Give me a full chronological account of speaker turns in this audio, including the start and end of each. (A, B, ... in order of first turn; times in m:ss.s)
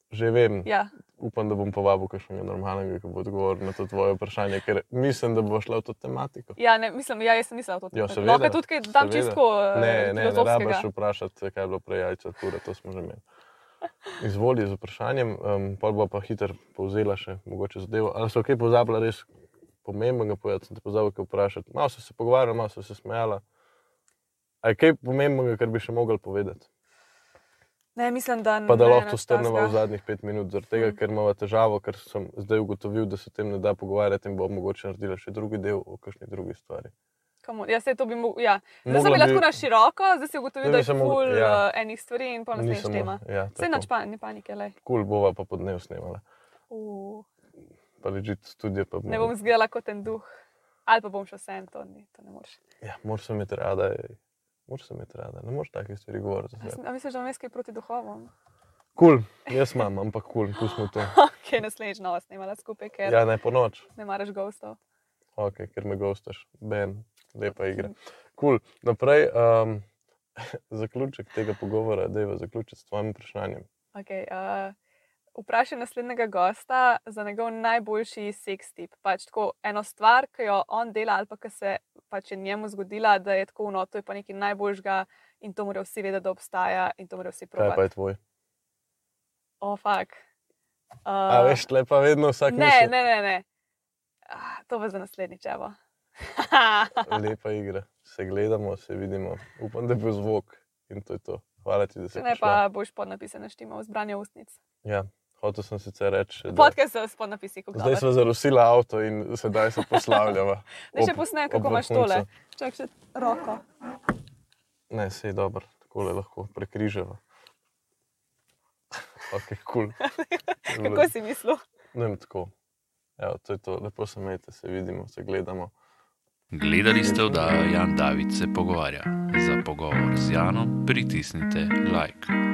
0:00.1-0:06.6 A
0:00.6-0:00.9 B
0:06.6-0:10.9 B
0:07.9-0:13.2 A
0:14.2-0:19.3 A
0:19.8-0:23.4 A
0:24.6-0:26.7 A
0:27.9-0:29.8 B
0:28.6-0:36.9 A
0:37.4-0:44.8 B
0:38.8-0:39.5 A
0:40.6-0:41.6 A
0:42.5-0:43.9 A
0:44.8-0:46.2 A
0:46.7-0:47.3 B
0:48.0-0:49.3 A
0:49.1-0:50.3 B
0:50.8-0:52.6 B
0:52.8-0:56.8 A
0:56.6-0:58.3 B
0:59.0-1:01.2 A
0:59.5-0:59.8 B
1:00.6-1:03.2 B
1:03.0-1:03.9 A
1:03.9-1:04.8 B
1:05.4-1:09.8 A
1:10.4-1:13.7 A
1:13.9-1:14.8 B
1:15.3-1:27.8 B
1:27.6-1:28.2 A
1:29.6-1:30.2 B
1:31.0-1:31.7 B
1:31.3-1:32.9 A
1:32.5-1:33.4 B
1:34.3-1:37.2 B
1:37.0-1:42.6 A
1:42.1-1:44.6 B
1:44.8-1:46.8 A
1:46.5-1:48.1 B
1:47.7-1:52.3 A
1:49.8-1:50.3 B
1:50.9-1:53.6 B
1:54.9-1:57.2 A
1:59.3-2:00.0 A
2:00.0-2:01.6 B
2:00.6-2:01.1 A
2:01.9-2:02.5 A
2:03.2-2:05.7 A
2:06.5-2:12.3 C
2:07.0-2:07.7 A